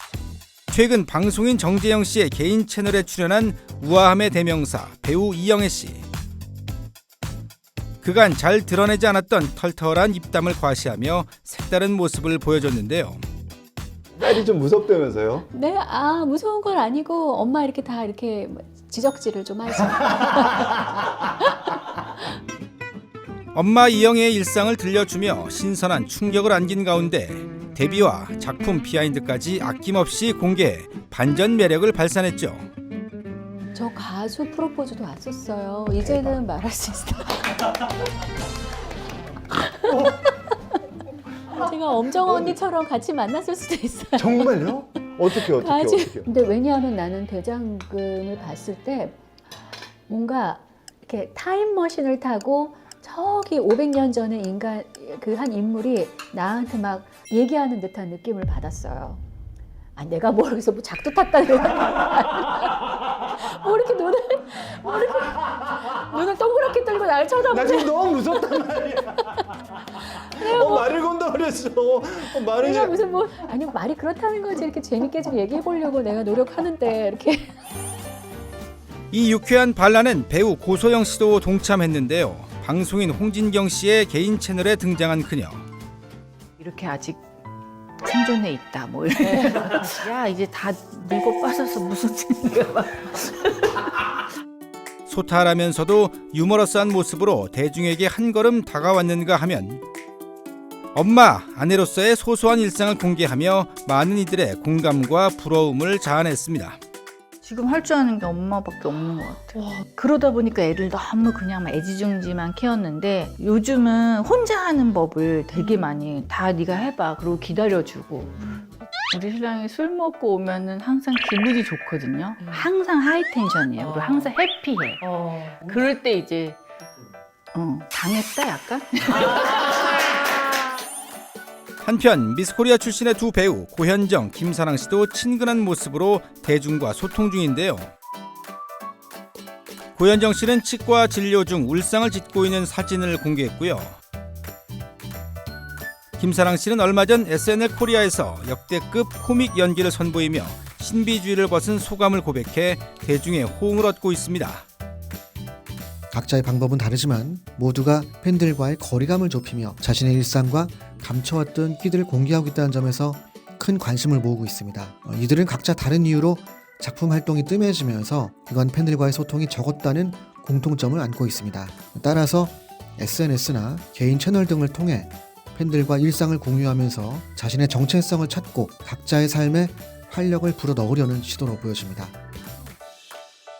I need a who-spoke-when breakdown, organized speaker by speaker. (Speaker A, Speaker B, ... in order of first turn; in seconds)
Speaker A: 0.7-6.1, 8.0-13.2, 23.5-32.7, 79.1-85.7, 95.1-99.8, 101.0-106.8, 131.8-137.9, 140.0-144.0, 146.2-154.7
Speaker B: 14.2-15.5, 44.2-46.3, 67.5-69.4, 70.3-73.0
Speaker C: 15.5-22.2, 33.7-37.8, 39.5-40.4, 41.5-44.7, 45.3-49.2, 50.1-59.2, 60.0-68.6, 69.2-70.9, 72.4-77.5
Speaker D: 86.6-87.2, 88.0-93.9, 107.4-118.4, 119.1-126.6, 127.5-130.2
Speaker E: 156.1-182.2